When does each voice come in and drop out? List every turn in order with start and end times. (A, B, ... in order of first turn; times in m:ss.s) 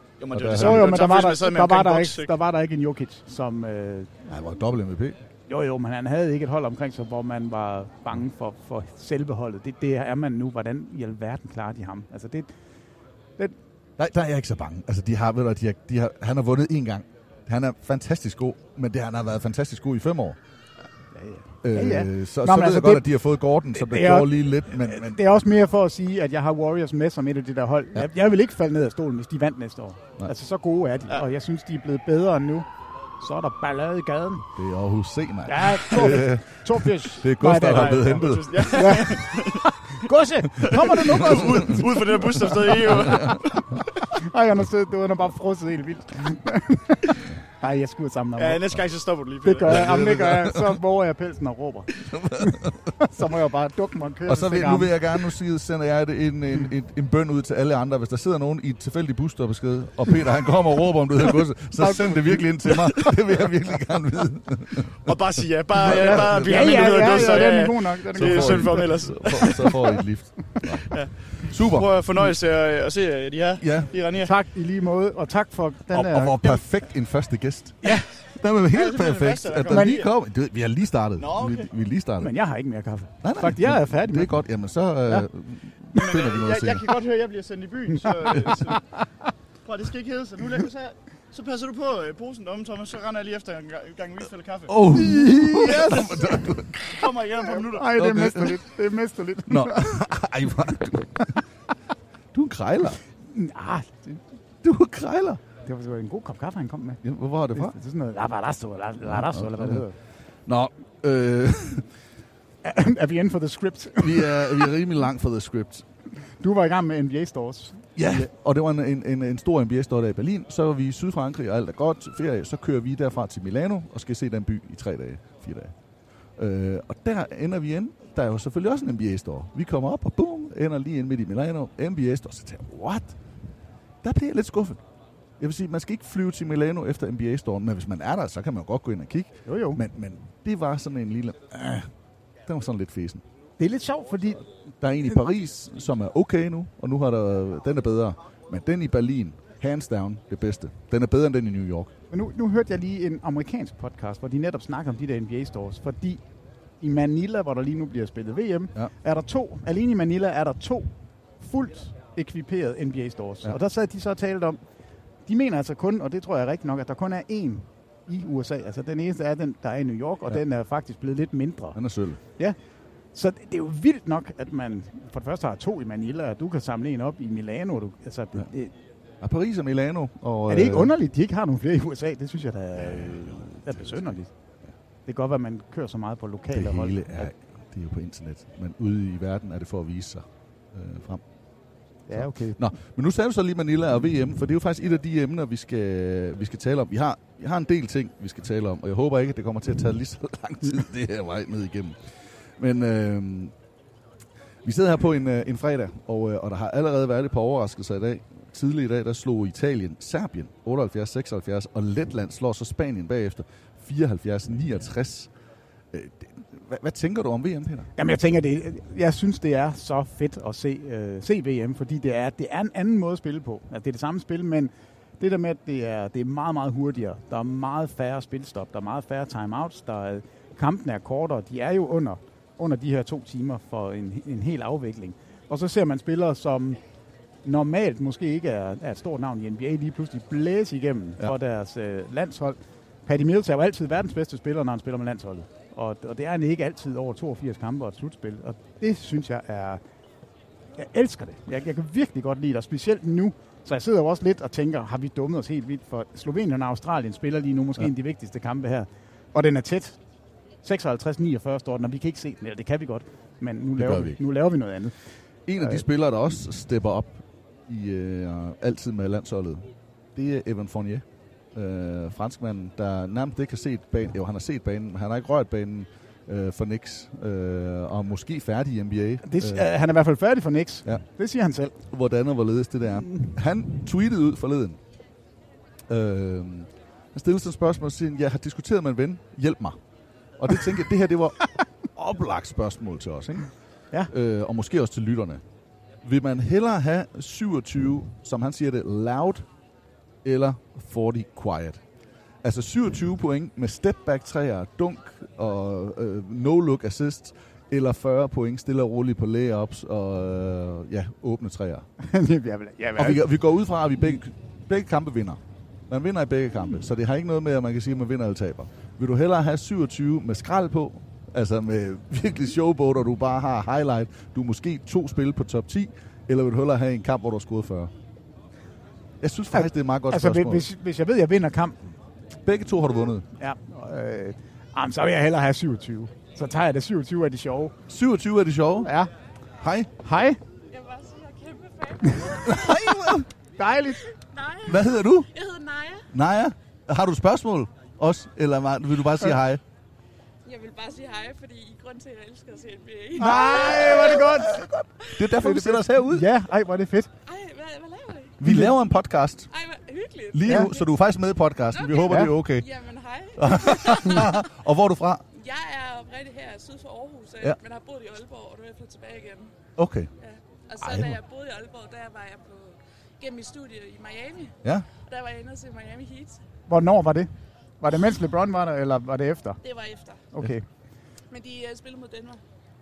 0:00.2-0:02.3 A
0:00.3-0:01.1 B
0:00.5-0:04.2 C
0:04.2-0:05.2 B
0:05.5-0:12.5 C
0:14.0-0:20.4 B
0:21.1-0:23.2 C
0:21.6-0:25.2 B
0:23.7-0:32.7 C
0:33.2-0:34.5 C
0:34.6-0:38.9 B
0:35.5-0:42.4 C
0:37.6-0:39.6 A
0:41.0-0:43.8 A
0:41.1-0:43.4 B
0:44.1-0:48.6 C
0:48.4-0:49.9 A
0:49.4-0:54.9 C
0:49.6-0:50.8 B
0:52.1-0:52.8 B
0:54.2-1:05.1 B
1:01.8-1:02.4 C
1:05.0-1:09.9 A
1:05.8-1:07.6 B
1:05.8-1:08.9 C
1:08.1-1:11.9 B
1:10.9-1:14.3 A
1:13.6-1:14.0 B
1:14.2-1:16.4 C
1:15.9-1:22.3 B
1:18.7-1:20.1 A
1:19.7-1:20.0 C
1:21.2-1:21.7 A
1:22.2-1:24.4 C
1:23.2-1:26.9 B
1:26.0-1:28.8 A
1:28.8-1:29.0 C
1:29.6-1:37.9 A
1:34.7-1:36.7 B
1:37.4-1:40.0 C
1:37.9-1:38.6 B
1:39.5-1:41.4 B
1:42.3-1:43.0 B
1:43.2-1:44.2 C
1:44.6-1:45.4 B
1:45.6-1:47.0 C
1:47.0-1:47.8 B
1:47.5-1:50.0 C
1:49.0-1:49.8 B
1:50.4-1:51.9 B
1:52.6-1:54.7 C
1:54.0-1:55.8 B
1:56.1-1:58.3 C
1:58.0-2:05.7 B
2:06.4-2:13.2 B
2:14.0-2:14.8 B
2:15.4-2:21.9 B
2:19.4-2:19.8 C
2:22.4-2:23.2 B
2:23.6-2:24.4 C
2:24.8-2:31.9 B
2:32.1-2:36.2 C
2:36.8-2:44.6 C
2:45.2-2:51.8 C
2:51.7-2:52.2 B
2:53.1-2:58.7 C
2:59.2-3:00.9 B
3:00.5-3:04.3 C
3:02.9-3:04.1 B
3:05.0-3:07.3 C
3:06.5-3:11.2 B
3:12.1-3:12.7 C
3:12.1-3:23.5 B
3:24.6-3:35.3 B
3:35.9-3:37.9 B
3:38.0-3:56.8 C
3:57.4-4:09.8 C
4:10.8-4:20.0 C
4:20.6-4:24.9 C
4:23.8-4:24.2 B
4:25.4-4:39.6 B
4:39.2-4:41.8 C
4:41.9-4:44.8 B
4:42.8-4:43.4 C
4:45.9-4:49.8 B
4:50.4-4:53.5 B
4:54.1-4:55.4 B
4:56.0-4:59.4 B
5:00.2-5:01.8 B
5:02.4-5:11.9 B
5:12.0-5:13.3 C
5:13.0-5:27.9 B
5:29.2-5:30.6 B
5:29.5-5:31.8 C
5:32.4-5:33.2 B
5:33.4-5:37.7 C
5:37.9-5:38.9 B
5:38.8-5:39.1 C
5:39.6-5:39.9 B
5:40.0-5:40.4 C
5:40.7-5:42.9 D
5:42.4-5:43.3 B
5:43.6-5:44.0 C
5:44.3-5:46.0 D
5:44.6-5:45.3 B
5:46.1-5:49.6 B
5:50.4-5:54.2 D
5:53.2-5:54.6 C
5:53.2-5:56.3 B
5:55.4-5:57.1 C
5:57.2-5:58.4 D
5:58.4-5:59.5 B
5:58.4-5:58.8 C
5:59.5-6:00.9 D
6:00.3-6:02.7 B
6:01.7-6:04.4 D
6:02.0-6:02.4 C
6:03.4-6:05.2 B
6:05.3-6:09.5 D
6:09.8-6:10.1 B
6:10.2-6:14.6 D
6:10.8-6:11.2 B
6:15.1-6:16.4 D
6:16.7-6:19.6 C
6:19.6-6:20.3 D
6:20.3-6:20.6 C
6:21.3-6:22.4 D